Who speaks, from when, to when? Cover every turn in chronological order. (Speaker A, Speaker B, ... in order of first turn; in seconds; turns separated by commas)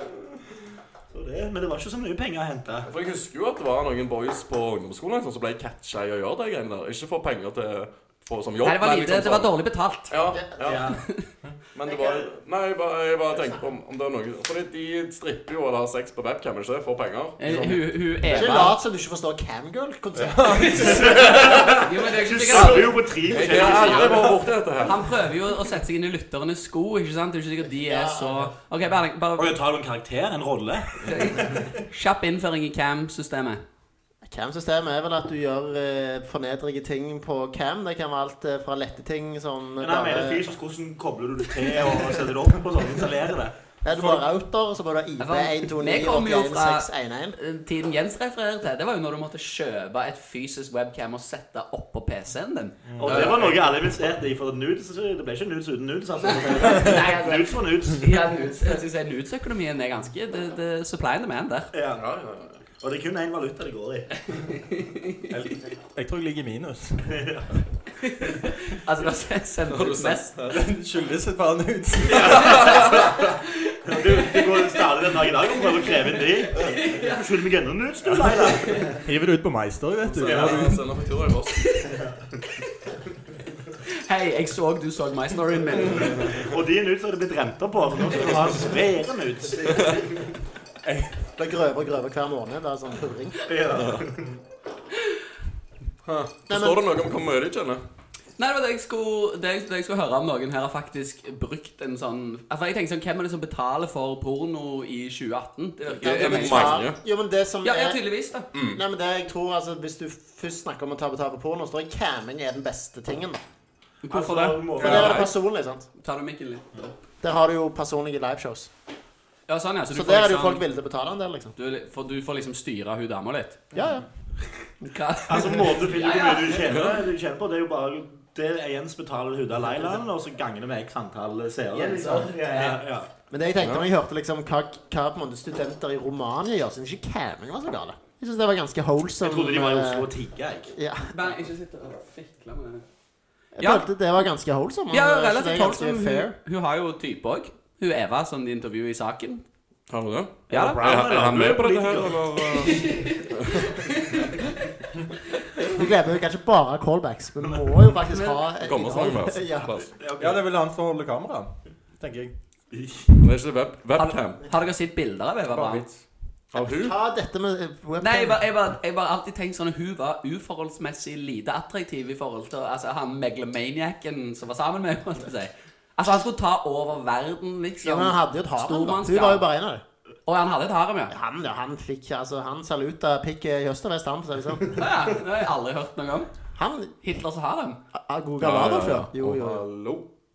Speaker A: 1.1-2.9, Speaker B: 2.9-9.5, Speaker C: 8.6-10.1, Speaker B: 10.1-10.9, Speaker D: 10.3-10.8, Speaker A: 10.6-11.0, Speaker C: 10.9-11.2, Speaker B: 11.7-17.8, Speaker D: 13.3-13.6, Speaker C: 17.4-18.8, Speaker D: 17.4-21.0, Speaker E: 20.1-21.2, Speaker A: 20.7-24.4, Speaker C: 21.7-23.0, Speaker B: 22.5-25.0, Speaker C: 23.5-24.1, Speaker C: 24.8-29.6, Speaker D: 27.7-28.5, Speaker A: 29.4-31.0, Speaker C: 31.0-33.6, Speaker D: 34.2-40.5, Speaker A: 39.8-44.2, Speaker D: 43.8-47.4, Speaker C: 45.2-52.8, Speaker E: 52.9-53.3, Speaker A: 53.0-58.1, Speaker B: 53.0-53.6, Speaker C: 56.2-61.7, Speaker A: 61.7-62.0, Speaker B: 62.0-62.6, Speaker A: 62.8-64.1, Speaker C: 64.5-65.2, Speaker E: 65.3-67.1, Speaker A: 67.1-67.5, Speaker C: 68.0-70.3, Speaker B: 69.7-70.6, Speaker E: 70.5-72.4, Speaker A: 72.1-73.3, Speaker B: 72.3-73.1, Speaker C: 72.4-73.0, Speaker C: 73.6-74.5, Speaker A: 73.8-79.0, Speaker C: 76.5-77.2, Speaker E: 79.0-80.8, Speaker B: 80.0-81.7, Speaker A: 80.2-80.7, Speaker C: 84.0-86.3, Speaker A: 86.1-90.3, Speaker E: 90.8-91.1, Speaker D: 91.4-93.4, Speaker A: 93.4-94.3, Speaker B: 93.7-94.0, Speaker B: 96.0-97.8, Speaker D: 96.5-96.8, Speaker C: 98.4-106.8, Speaker D: 106.0-113.4, Speaker B: 106.0-107.0, Speaker C: 107.6-108.5, Speaker B: 108.5-108.8, Speaker C: 114.0-115.2, Speaker A: 114.1-115.2, Speaker E: 114.8-115.1, Speaker D: 114.8-115.9, Speaker B: 114.8-115.3, Speaker C: 116.0-116.9, Speaker D: 117.2-118.7, Speaker C: 119.5-120.6, Speaker D: 119.9-121.5, Speaker C: 121.5-123.6, Speaker D: 123.7-124.0, Speaker E: 123.7-124.0, Speaker C: 124.8-126.7, Speaker A: 125.3-133.1, Speaker B: 126.6-127.1, Speaker C: 131.7-132.8, Speaker D: 133.3-140.1, Speaker B: 133.6-133.8, Speaker A: 139.2-140.7, Speaker D: 140.7-141.1, Speaker C: 141.1-142.8, Speaker D: 143.5-146.3, Speaker C: 143.6-143.9, Speaker C: 144.9-149.4, Speaker B: 149.9-153.8, Speaker A: 150.5-152.8, Speaker C: 150.5-150.8, Speaker C: 152.7-153.2, Speaker C: 153.9-154.2, Speaker D: 155.7-159.7, Speaker C: 158.1-158.4, Speaker B: 158.6-159.9, Speaker A: 160.0-160.5, Speaker E: 160.2-162.3, Speaker A: 162.7-163.1, Speaker B: 163.2-164.4, Speaker C: 163.9-165.8, Speaker E: 165.5-166.0, Speaker B: 166.5-166.9, Speaker D: 166.6-168.5, Speaker C: 168.0-179.4, Speaker D: 177.8-179.8, Speaker C: 180.3-181.1, Speaker D: 181.1-184.7, Speaker C: 184.8-186.3, Speaker D: 186.6-186.9, Speaker C: 187.0-187.8, Speaker D: 187.9-189.6, Speaker B: 188.4-190.1